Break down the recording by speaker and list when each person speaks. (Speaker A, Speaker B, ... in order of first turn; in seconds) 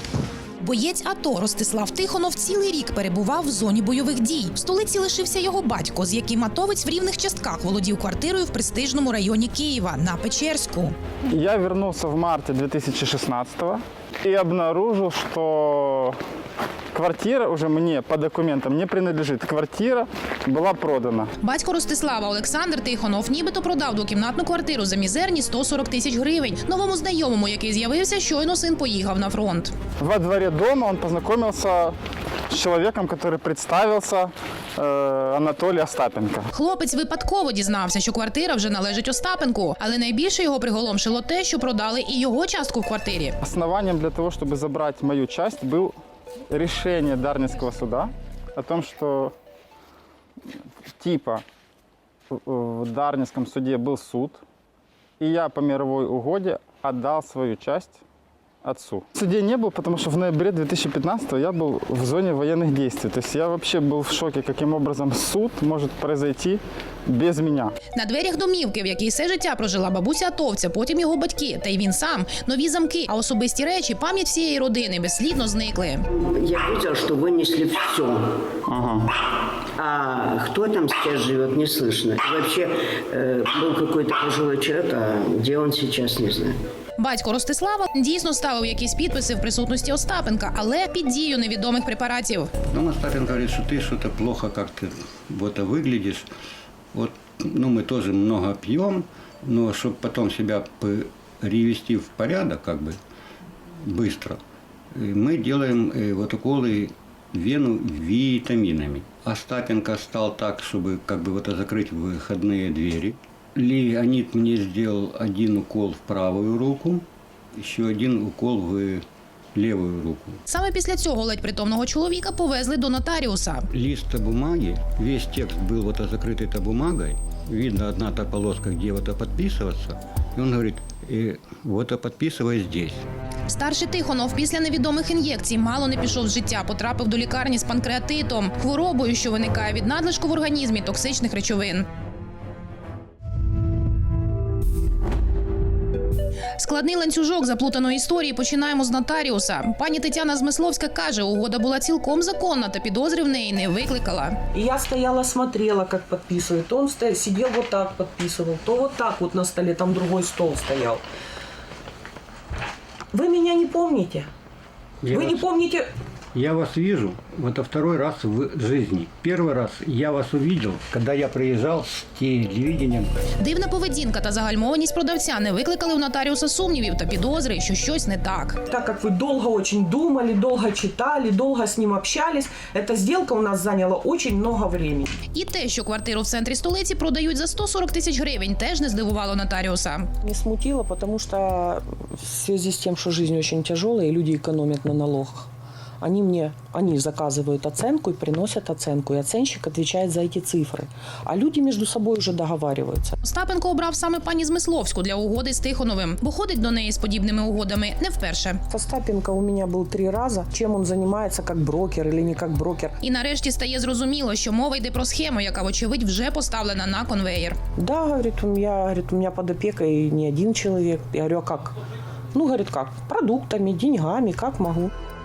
Speaker A: 0.6-10.9, 21.4-29.7, 36.5-43.4, 67.9-76.0, 87.0-92.5, 120.5-123.7, 133.5-141.8, 146.6-154.4, 173.4-178.6, 185.3-190.1, 203.2-208.6, 213.0-217.6
Speaker B: 11.3-16.1, 16.9-21.3, 30.0-31.9, 32.5-36.5, 43.4-45.9, 46.5-49.3, 51.0-51.4, 52.4-54.4, 55.2-58.0, 58.6-67.7
Speaker C: 76.1-78.2, 79.8-86.5
Speaker D: 92.7-96.3, 96.9-103.0, 103.8-104.4, 104.9-117.0, 117.5-120.4, 123.7-133.1, 165.0-165.4, 166.3-173.1
Speaker E: 154.5-161.0, 163.1-164.3, 165.1-165.9, 178.7-185.1, 190.2-195.5, 196.0-203.2, 208.7-212.9, 217.8-221.7, 222.3-224.9